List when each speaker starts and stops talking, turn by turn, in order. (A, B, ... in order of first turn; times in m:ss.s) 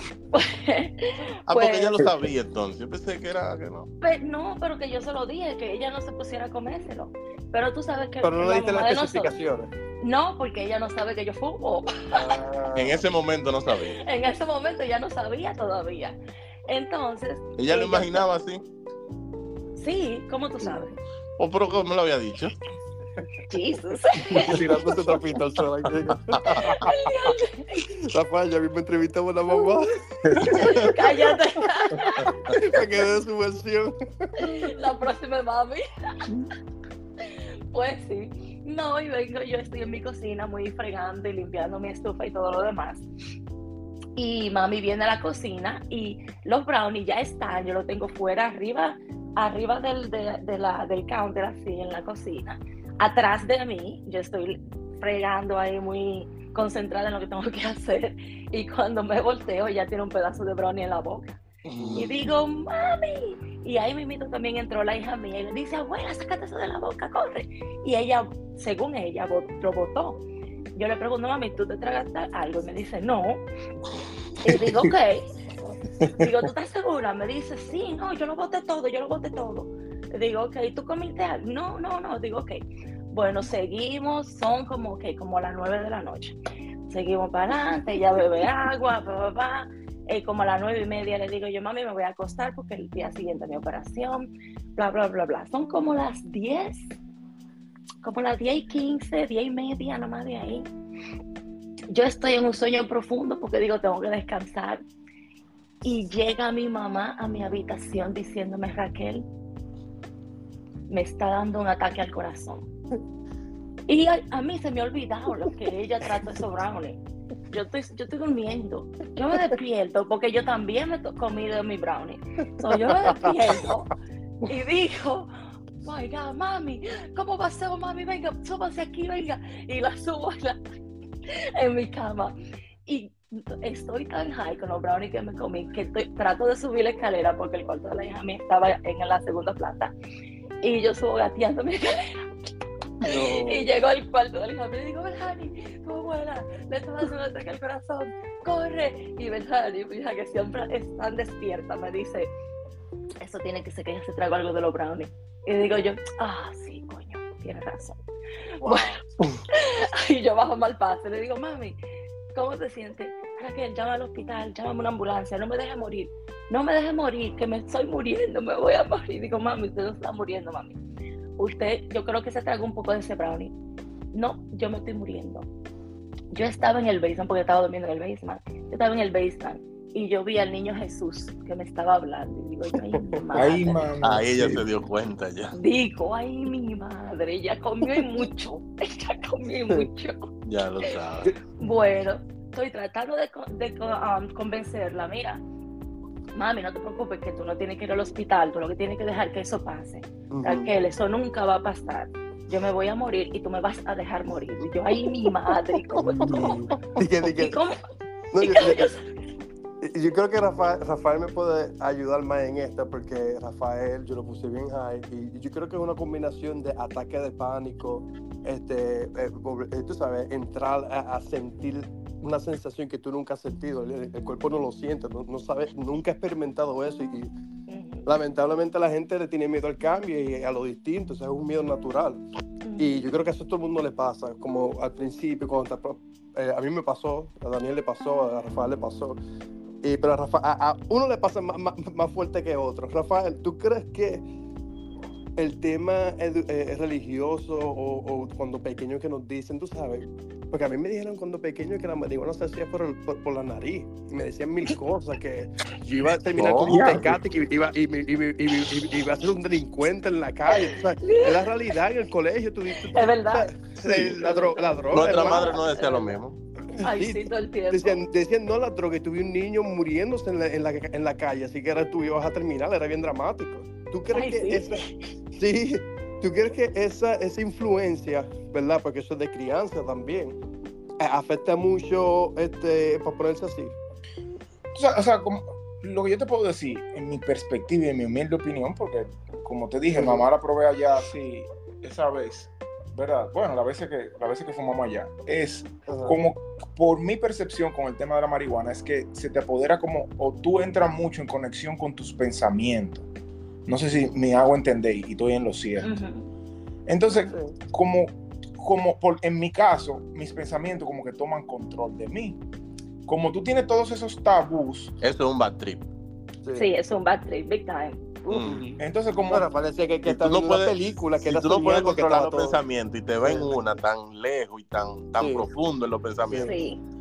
0:00.3-0:02.0 A
0:01.5-0:03.9 B
0:04.0-0:09.3 A
0:08.2-0:09.7 C
0:10.0-0:12.3 A
0:12.1-0:13.0 C
0:12.7-0:14.0 B
0:14.0-0:18.2 A
0:17.6-0:18.6 B
0:19.8-0:20.9 A
0:21.4-0:22.5 B
0:23.5-0:24.6 A
0:24.3-0:26.9 C
0:26.3-0:26.8 B
0:26.8-0:27.9 A
0:27.9-0:31.3 C
0:30.4-0:32.3 A
0:32.2-0:34.7 C
0:34.4-0:36.2 A
0:37.2-0:43.0 A
0:44.2-1:01.4 A
1:01.6-1:02.3 B
1:01.8-1:02.0 C
1:02.0-1:10.2 A
1:10.7-1:13.4 A
1:14.4-1:15.2 A
1:16.1-1:26.4 A
1:26.9-1:36.9 A
1:38.0-1:40.7 A
1:41.9-1:44.8 A
1:45.8-1:49.2 A
1:50.9-1:52.7 A
1:53.9-1:57.0 A
1:57.5-2:03.9 A
2:02.9-2:03.2 C
2:04.4-2:05.3 A
2:05.8-2:10.6 A
2:11.3-2:12.3 A
2:12.8-2:19.9 A
2:20.6-2:22.3 A
2:23.0-2:23.6 C
2:23.0-2:32.3 A
2:33.2-2:38.0 A
2:38.6-2:39.0 A
2:38.6-2:38.9 C
2:39.5-2:41.8 A
2:42.3-2:50.8 A
2:51.4-2:53.5 A
2:54.1-2:55.5 A
2:56.3-3:03.8 A
3:03.3-3:04.6 D
3:04.0-3:05.6 B
3:05.5-3:10.3 A
3:10.4-3:11.3 B
3:11.6-3:15.4 A
3:16.3-3:26.7 A
3:20.3-3:20.7 C
3:25.9-3:27.6 C
3:27.2-3:27.8 A
3:28.3-3:29.0 C
3:28.4-3:29.0 A
3:29.8-3:47.3 C
3:47.7-3:48.1 A
3:48.0-3:52.2 C
3:52.6-3:53.0 A
3:52.8-3:59.2 C
3:59.8-4:04.3 C
4:05.4-4:25.6 C
4:16.4-4:17.2 B
4:16.7-4:17.1 D
4:21.0-4:21.4 A
4:22.9-4:23.5 A
4:23.8-4:26.4 B
4:24.2-4:26.1 A
4:26.7-4:34.8 C
4:26.8-4:28.0 A
4:34.1-4:34.9 A
4:35.4-4:40.4 C
4:41.0-4:43.8 C
4:44.7-5:03.0 D
4:49.9-4:50.3 C
4:55.9-4:56.2 C
5:03.7-5:06.0 D
5:05.8-5:06.3 A
5:06.9-5:12.4 D
5:07.3-5:07.6 C
5:13.1-5:14.9 D
5:15.0-5:15.8 B
5:16.5-5:18.6 A
5:18.3-5:18.6 B
5:18.5-5:22.6 C
5:18.8-5:19.4 D
5:20.0-5:26.6 B
5:23.2-5:23.6 C
5:25.2-5:25.5 C
5:26.2-5:26.5 C
5:26.4-5:26.8 A